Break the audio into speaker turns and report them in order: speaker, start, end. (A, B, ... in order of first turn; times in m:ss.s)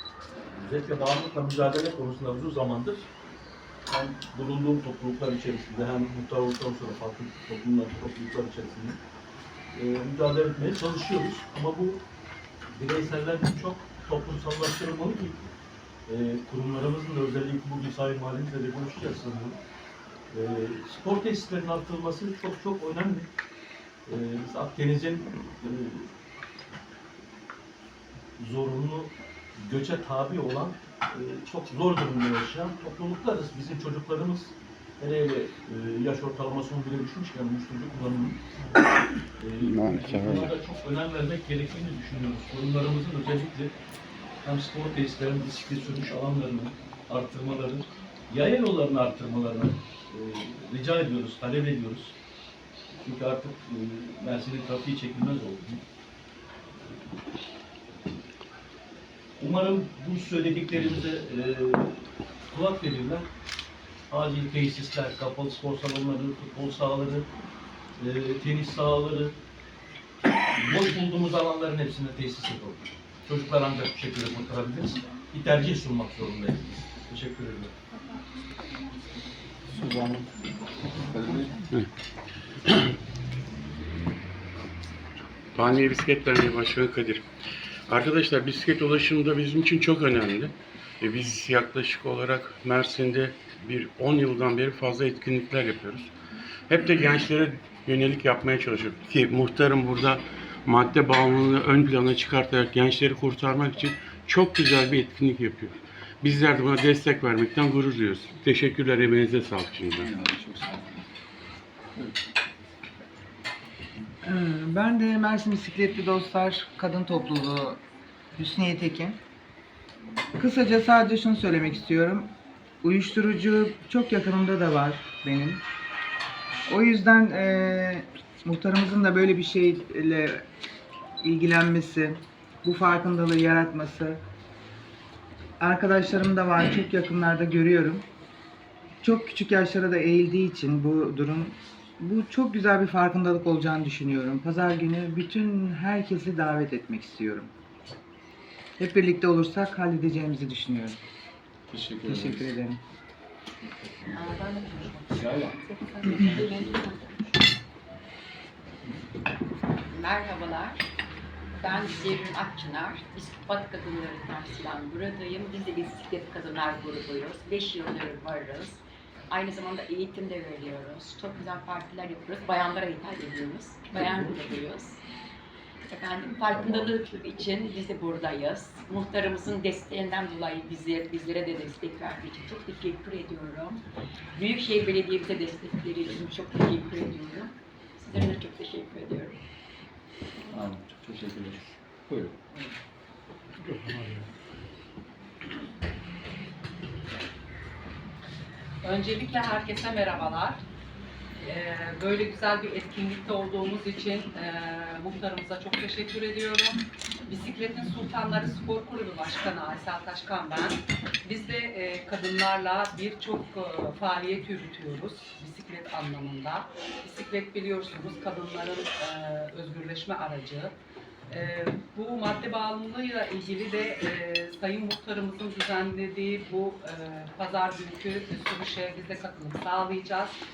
0:00.5-0:03.1 A
0:03.9-0:09.0 A
0:09.8-0:12.0 A
0:12.8-0:15.4 A
0:16.1-0:19.6 A
0:20.3-0:23.3 A
0:24.1-0:26.1 A
0:28.4-0:38.4 A
0:39.4-0:43.7 A
0:39.6-0:40.5 B
0:44.4-0:52.1 A
0:53.0-0:55.8 A
0:59.4-1:02.0 A
1:02.5-1:03.3 A
1:04.1-1:07.3 A
1:08.0-1:09.4 A
1:10.6-1:17.7 A
1:19.7-1:20.3 B
1:21.0-1:21.6 B
1:25.6-1:27.2 C
1:27.9-1:36.1 C
1:36.7-1:50.1 C
1:50.0-1:50.9 B
1:54.2-1:57.8 D
1:58.4-1:59.2 D
2:00.4-2:02.3 D
2:02.8-2:05.6 D
2:06.7-2:10.4 D
2:11.2-2:14.2 D
2:15.6-2:18.1 D
2:19.0-2:27.5 D
2:28.8-2:31.0 D
2:31.7-2:32.5 B
2:32.0-2:32.8 D
2:34.1-2:37.3 E
2:35.1-2:36.8 B
2:39.9-2:40.9 E
2:41.6-2:55.0 E
2:54.0-2:54.5 A
2:55.9-3:03.8 E
2:56.7-2:56.9 A
3:04.4-3:09.4 E
3:10.6-3:12.4 B
3:13.8-3:14.2 A
3:18.8-3:20.6 F
3:21.4-3:40.8 F
3:41.3-3:50.4 F